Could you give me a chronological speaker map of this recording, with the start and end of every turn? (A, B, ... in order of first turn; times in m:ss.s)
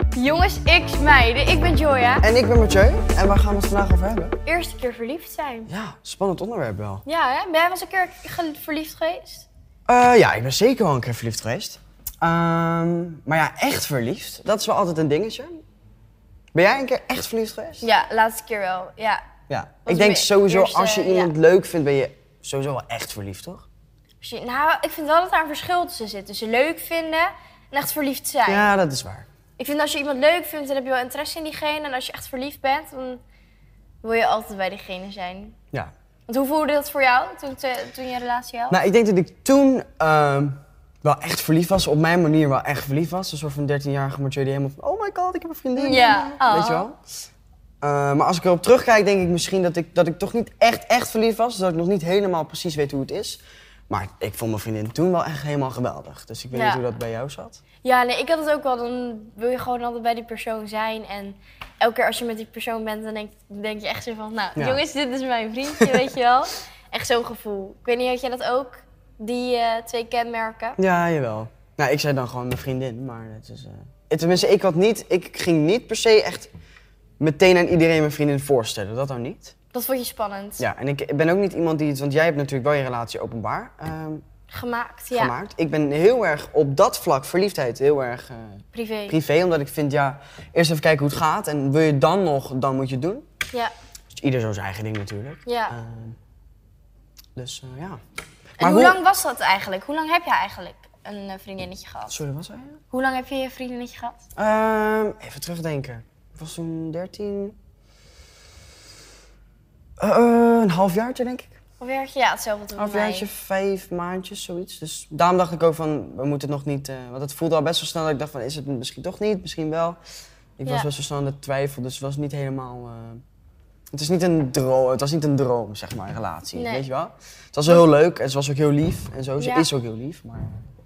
0:00.1-0:02.3 A
0:02.2-0:04.4 B
0:04.4-0:05.7 A
0:05.7-0:07.0 B
0:07.1-0:09.5 A
0:09.9-0:15.6 B
0:16.5-0:17.9 B
0:17.8-0:19.2 A
0:19.5-0:23.7 B
0:19.9-0:21.3 A
0:24.2-0:28.7 A
0:28.5-0:29.3 B
0:29.6-0:33.2 A
0:34.0-0:35.6 A
0:36.3-0:38.8 A
0:38.7-0:47.0 B
0:45.8-0:46.8 A
0:47.8-0:57.6 B
0:56.5-0:56.8 A
0:57.8-1:10.8 A
1:04.6-1:04.8 B
1:10.8-1:16.5 B
1:17.2-1:19.5 B
1:19.7-1:20.6 A
1:20.6-1:24.2 B
1:24.5-1:25.3 A
1:25.1-1:33.2 B
1:28.7-1:29.2 A
1:34.1-1:36.2 B
1:35.5-1:35.7 A
1:37.4-1:38.0 B
1:38.6-1:39.0 B
1:38.6-1:42.2 A
1:42.1-1:42.8 B
1:42.9-1:44.2 A
1:44.4-1:47.6 B
1:50.0-1:51.5 B
1:51.8-1:53.3 A
1:52.8-2:00.0 B
2:00.6-2:03.2 B
2:03.9-2:10.7 B
2:06.5-2:06.9 A
2:09.4-2:09.7 A